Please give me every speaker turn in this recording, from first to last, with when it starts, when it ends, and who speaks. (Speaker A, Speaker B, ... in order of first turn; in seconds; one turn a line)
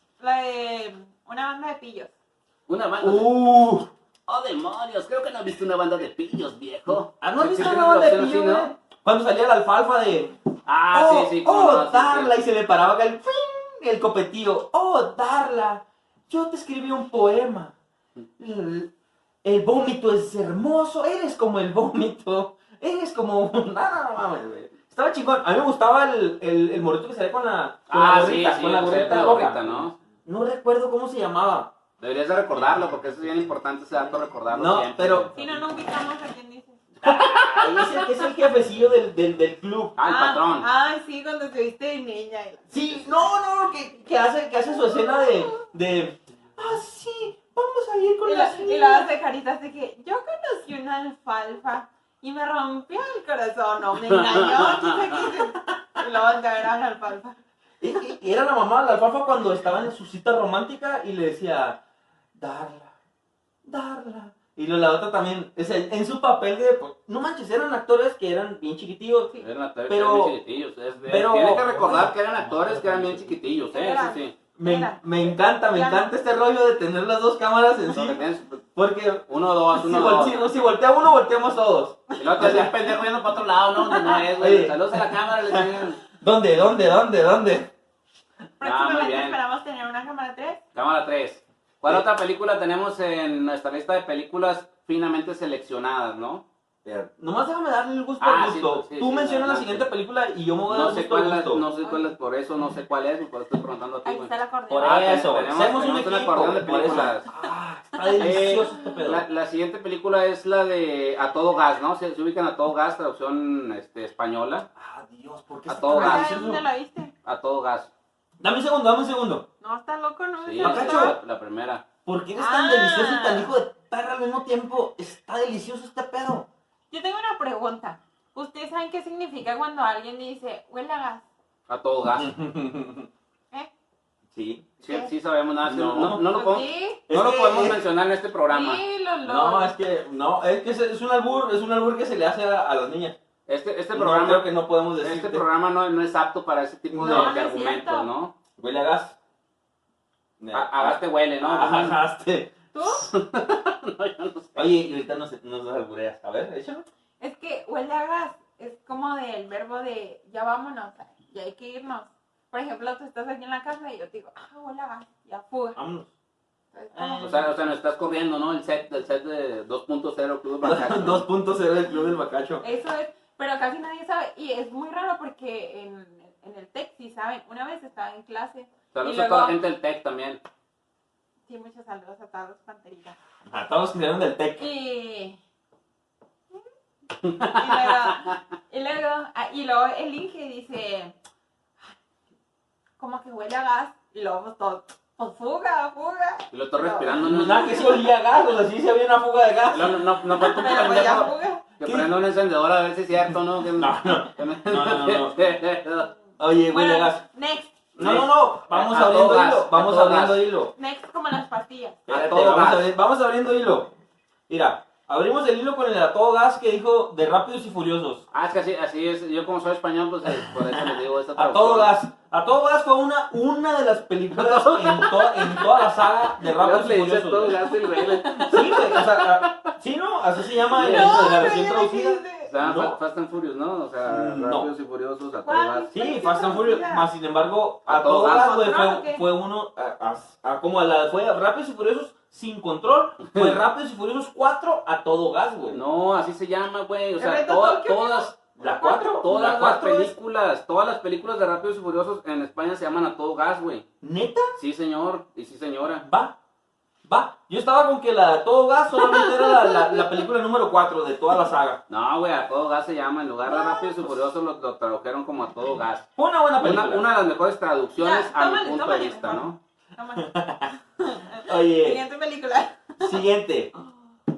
Speaker A: 0.2-2.1
Speaker B: 2.7-3.3
Speaker C: 3.0-3.9
Speaker B: 4.3-8.7
Speaker C: 7.2-10.4
Speaker B: 10.7-12.4
Speaker C: 10.9-17.8
Speaker C: 18.4-18.9
Speaker C: 19.4-31.7
Speaker B: 27.9-29.9
Speaker B: 32.0-35.5
Speaker C: 34.5-35.3
Speaker A: 35.3-36.8
Speaker B: 37.0-37.7
Speaker C: 37.0-40.0
Speaker B: 40.0-40.7
Speaker A: 40.1-42.7
Speaker C: 42.7-49.1
Speaker A: 48.2-57.4
Speaker B: 54.0-55.2
Speaker C: 57.8-61.8
Speaker C: 62.4-62.9
Speaker C: 63.7-69.3
Speaker B: 69.4-74.3
Speaker C: 69.9-70.4
Speaker C: 71.1-72.1
Speaker A: 73.7-75.0
Speaker C: 74.6-78.2
Speaker A: 75.7-76.1
Speaker B: 77.9-78.6
Speaker C: 78.8-82.9
Speaker B: 79.3-80.4
Speaker B: 82.2-86.0
Speaker C: 84.3-87.7
Speaker A: 88.6-90.6
Speaker B: 88.6-89.4
Speaker B: 90.8-96.4
Speaker C: 96.8-101.7
Speaker B: 98.2-99.9
Speaker B: 100.7-107.3
Speaker A: 104.0-105.2
Speaker C: 104.7-109.2
Speaker A: 108.0-109.0
Speaker B: 108.2-114.7
Speaker C: 114.8-116.6
Speaker B: 115.7-116.5
Speaker A: 116.0-117.1
Speaker B: 117.2-117.9
Speaker C: 118.4-119.5
Speaker A: 119.6-121.2
Speaker B: 120.4-121.8
Speaker C: 120.6-121.2
Speaker C: 122.0-126.5
Speaker A: 122.4-123.5
Speaker A: 126.9-131.3
Speaker B: 131.7-132.3
Speaker C: 132.1-133.1
Speaker C: 134.3-134.7
Speaker B: 134.8-138.8
Speaker A: 134.8-135.1
Speaker C: 135.6-136.2
Speaker A: 136.3-137.0
Speaker C: 137.1-137.8
Speaker A: 138.5-139.8
Speaker C: 139.2-143.2
Speaker B: 143.5-148.3
Speaker C: 143.9-145.4
Speaker C: 146.9-147.4
Speaker A: 147.0-148.1
Speaker C: 148.6-149.2
Speaker C: 150.4-152.6
Speaker B: 150.5-152.0
Speaker A: 152.7-153.1
Speaker B: 153.0-154.7
Speaker C: 154.6-156.9
Speaker A: 157.2-165.8
Speaker C: 165.8-166.1
Speaker A: 166.7-167.4
Speaker C: 166.9-167.4
Speaker B: 167.2-171.2
Speaker C: 170.6-172.6
Speaker A: 172.6-179.6
Speaker B: 178.9-180.4
Speaker A: 181.5-183.2
Speaker C: 183.5-184.7
Speaker A: 184.6-185.4
Speaker B: 187.2-188.4
Speaker A: 187.4-191.2
Speaker A: 193.0-198.1
Speaker B: 196.5-198.1
Speaker C: 197.2-201.3
Speaker B: 199.7-206.1
Speaker A: 200.4-201.6
Speaker C: 201.8-202.1
Speaker C: 203.3-205.4
Speaker C: 206.4-207.2
Speaker A: 206.7-207.8
Speaker B: 208.0-210.4
Speaker C: 208.0-210.7
Speaker A: 210.8-212.0
Speaker C: 212.1-213.9
Speaker B: 212.1-212.9
Speaker C: 214.5-218.2
Speaker B: 218.3-222.0
Speaker C: 220.3-227.6
Speaker B: 224.3-225.5
Speaker B: 226.4-229.7
Speaker A: 227.9-229.0
Speaker C: 228.4-233.0
Speaker B: 230.7-231.6
Speaker A: 230.8-232.5
Speaker B: 232.5-235.9
Speaker C: 234.1-234.7
Speaker A: 235.4-237.1
Speaker C: 235.9-245.8
Speaker B: 237.9-238.6
Speaker A: 238.2-239.3
Speaker B: 243.2-243.6
Speaker B: 245.7-248.4
Speaker A: 247.2-249.3
Speaker C: 248.4-250.1
Speaker B: 249.2-253.8
Speaker C: 254.0-254.6
Speaker B: 254.6-256.0
Speaker C: 256.0-256.4
Speaker C: 257.1-261.8
Speaker A: 259.0-260.1
Speaker B: 261.9-266.1
Speaker A: 263.5-264.0
Speaker C: 266.2-267.1
Speaker B: 266.6-269.6
Speaker A: 268.0-273.2
Speaker C: 270.2-270.7
Speaker C: 271.4-272.0
Speaker C: 273.0-273.7